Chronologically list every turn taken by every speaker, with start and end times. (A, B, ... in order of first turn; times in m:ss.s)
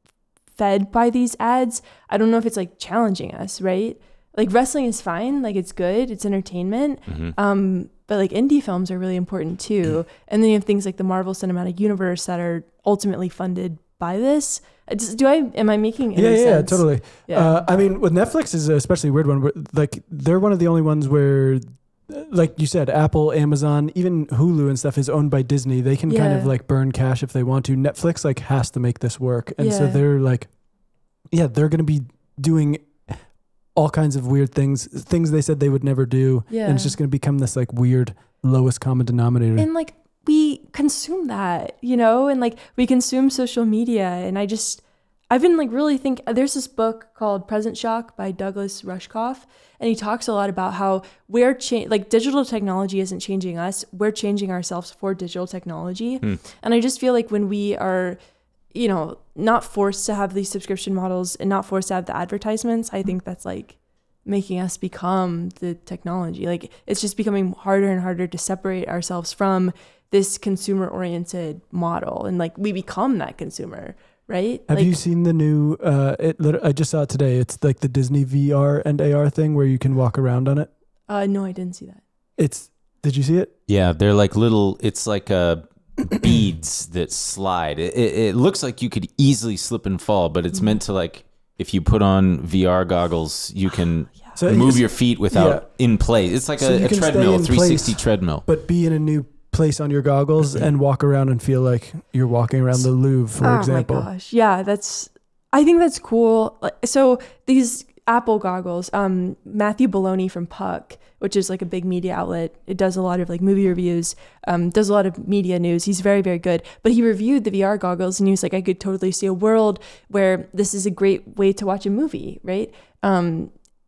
0:00.6-0:17.6 A
0:07.1-0:07.3 B
0:16.1-0:30.5 C
0:26.1-0:26.5 A
0:29.6-0:30.0 A
0:31.3-0:33.1 C
0:33.7-0:39.7 C
0:36.5-0:37.0 A
0:39.6-0:58.2 A
0:58.7-1:14.9 A
1:14.7-1:20.7 C
1:21.1-1:22.0 A
1:22.4-1:23.5 C
1:23.7-1:38.4 B
1:34.4-1:35.6 C
1:36.6-1:44.1 C
1:43.4-2:03.5 A